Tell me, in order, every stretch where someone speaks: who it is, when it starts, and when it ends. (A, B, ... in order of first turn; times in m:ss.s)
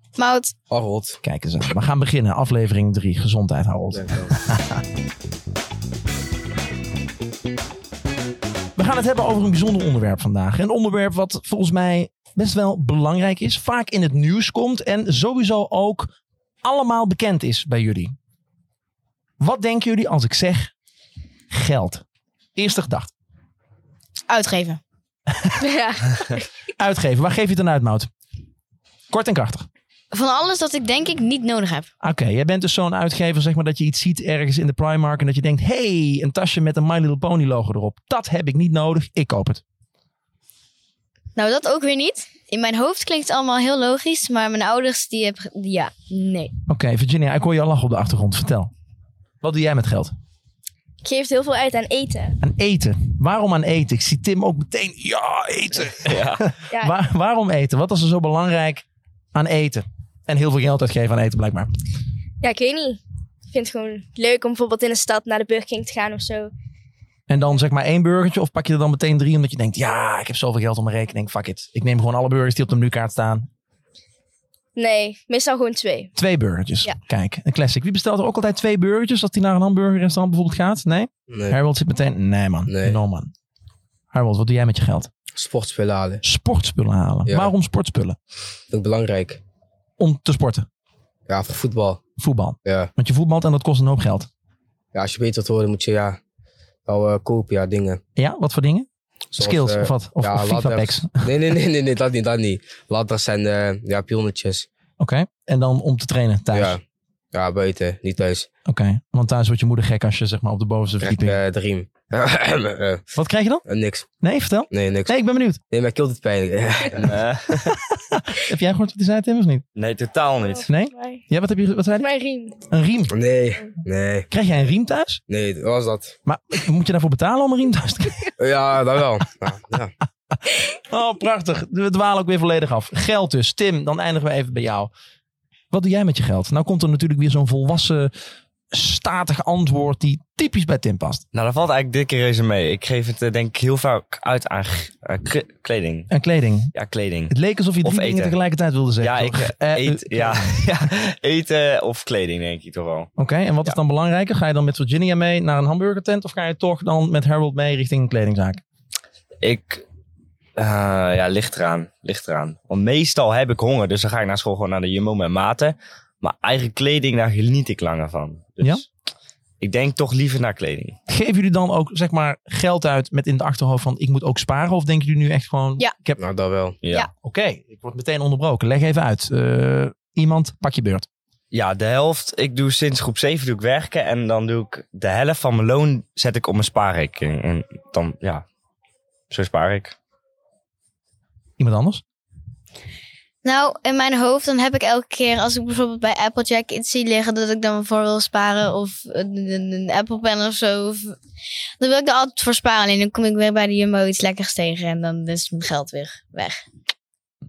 0:00.2-0:00.5 A
0:00.7-0:01.2 B
0:01.2-0:04.8 C
0:03.9-0:04.3 B
0:08.8-0:18.1 C
0:19.4-0:20.7 C
0:21.5-0:22.0 C
0:22.6-0:23.1 C
0:24.3-0:24.8 A
0:25.3-0:25.6 C
0:25.6-0:26.4 D
0:26.8-0:28.1 C
0:29.1-0:29.7 C
0:30.1-0:31.9 A
0:32.0-0:39.6 C
0:41.4-0:46.5 A
0:46.7-0:48.7 C
0:49.4-0:50.1 C
0:51.0-0:52.4 D
0:52.4-1:01.7 C
0:56.0-0:56.5 E
1:02.4-1:03.0 D
1:03.5-1:06.5 D
1:07.3-1:13.5 C
1:14.8-1:16.1 D
1:16.2-1:23.3 C
1:21.3-1:21.6 B
1:22.7-1:23.0 B
1:24.1-1:25.1 C
1:25.3-1:26.2 B
1:26.2-1:28.2 C
1:27.3-1:27.5 B
1:28.7-1:29.4 B
1:30.0-1:30.6 C
1:31.3-1:32.0 B
1:32.2-1:34.3 C
1:32.6-1:32.9 B
1:34.9-1:36.2 B
1:36.8-1:38.0 B
1:38.2-1:41.3 C
1:39.3-1:44.7 B
1:45.0-1:46.8 C
1:46.5-1:46.8 B
1:47.3-1:48.5 B
1:48.6-1:51.4 C
1:51.0-1:53.0 B
1:53.1-1:53.6 C
1:53.6-1:54.0 B
1:54.2-1:55.6 C
1:54.7-1:55.1 B
1:55.7-1:57.1 B
1:57.0-1:57.8 E
1:57.5-1:59.6 C
1:59.7-2:00.7 E
2:00.5-2:01.2 D
2:00.7-2:02.1 C
2:02.0-2:02.6 D
2:02.7-2:03.1 C
2:03.1-2:04.3 B
2:04.3-2:05.2 C
2:05.3-2:06.2 B
2:06.2-2:08.3 C
2:08.4-2:09.9 B
2:10.5-2:14.9 C
2:15.7-2:18.1 C
2:18.7-2:21.2 C
2:21.3-2:26.1 E
2:26.1-2:26.7 C
2:26.7-2:28.4 E
2:27.3-2:30.7 C
2:29.0-2:33.1 E
2:33.2-2:38.6 C
2:39.4-2:39.8 E
2:40.6-2:48.9 E
2:49.6-2:51.0 E
2:51.1-2:56.2 C
2:56.2-2:56.8 B
2:56.8-2:57.1 E
2:57.2-3:01.1 C
3:01.5-3:08.4 E
3:09.3-3:10.0 E
3:11.6-3:12.0 C
3:13.4-3:21.2 A
3:21.8-3:26.6 A